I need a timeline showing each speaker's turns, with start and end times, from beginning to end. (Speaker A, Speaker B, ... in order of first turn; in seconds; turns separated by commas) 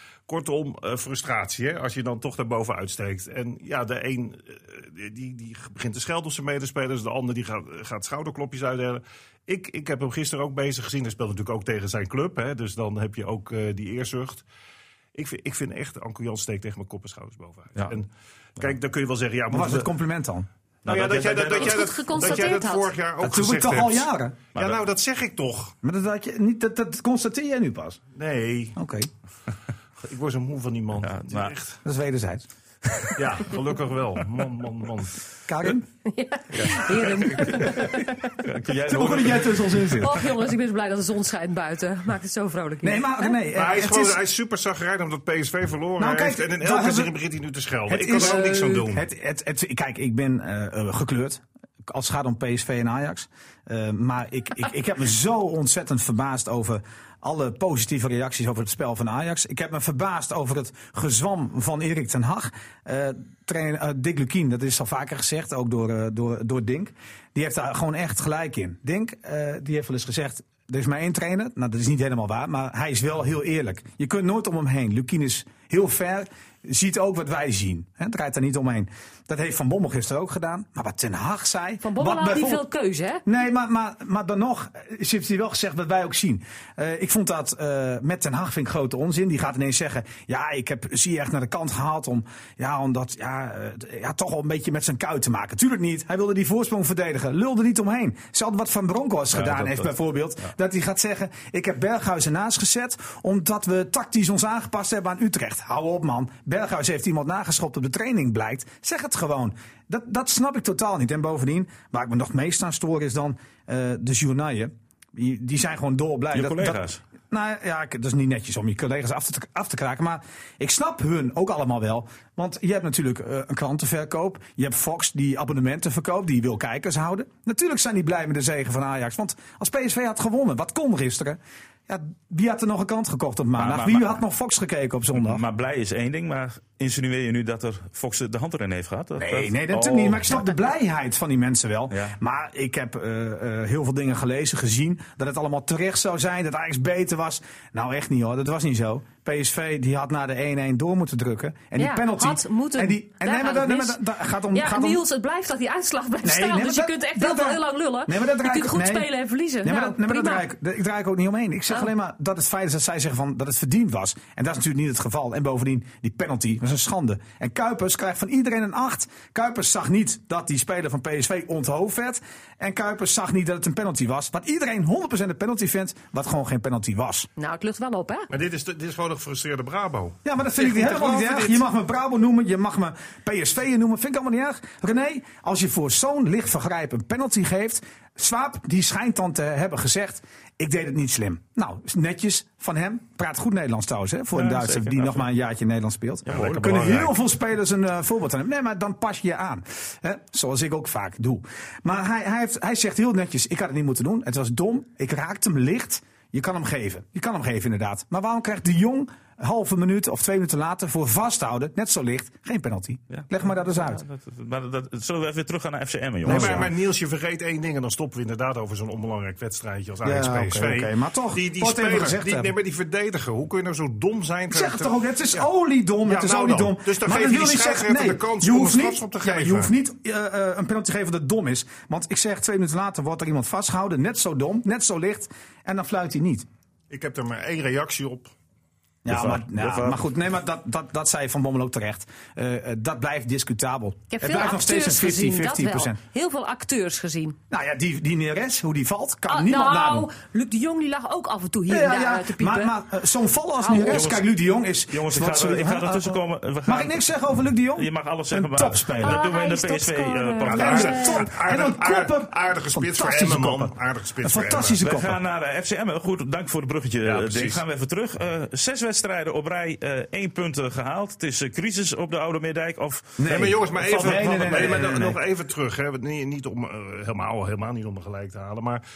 Speaker A: 0.3-14.4, Speaker A: 15.2-19.9, Speaker B: 19.5-20.5, Speaker C: 20.9-21.8, Speaker A: 20.9-25.8, Speaker D: 21.5-22.9, Speaker B: 23.2-24.4, Speaker B: 25.8-28.0, Speaker A: 28.1-28.8, Speaker B: 28.8-29.1, Speaker A: 30.0-31.8, Speaker C: 31.0-31.5, Speaker B: 31.9-33.1, Speaker A: 33.1-35.1, Speaker B: 35.5-35.9, Speaker D: 36.0-38.4, Speaker A: 37.0-37.5, Speaker C: 38.5-39.7, Speaker B: 38.8-40.2, Speaker D: 40.0-43.4, Speaker B: 42.8-44.2, Speaker A: 43.5-49.1, Speaker B: 46.0-47.1, Speaker B: 47.9-82.6, Speaker D: 81.8-83.2, Speaker B: 83.2-135.4, Speaker C: 99.4-99.9, Speaker C: 116.3-117.0, Speaker C: 133.6-134.2, Speaker C: 135.2-140.4, Speaker B: 139.2-155.0, Speaker C: 141.9-142.2, Speaker D: 151.8-160.5, Speaker B: 156.2-159.1, Speaker B: 159.6-177.3, Speaker D: 177.4-178.3, Speaker A: 178.3-181.6, Speaker B: 180.2-214.0, Speaker C: 194.3-195.3, Speaker C: 196.3-196.6, Speaker A: 196.3-197.2, Speaker C: 213.1-216.7, Speaker A: 216.2-225.5, Speaker B: 216.2-216.7, Speaker B: 220.0-222.5, Speaker B: 224.5-236.5, Speaker A: 226.0-229.7, Speaker A: 236.9-238.3, Speaker B: 239.1-246.0, Speaker C: 239.1-240.0, Speaker D: 244.1-247.4, Speaker B: 247.5-250.1, Speaker D: 249.3-252.7, Speaker B: 251.7-259.2, Speaker D: 253.6-254.1, Speaker C: 253.8-254.3, Speaker C: 254.9-257.0, Speaker C: 257.8-261.0, Speaker D: 259.0-261.2, Speaker A: 260.5-264.8, Speaker B: 260.5-265.2, Speaker C: 264.8-273.3, Speaker A: 267.0-267.6, Speaker B: 273.2-275.2, Speaker A: 273.2-278.8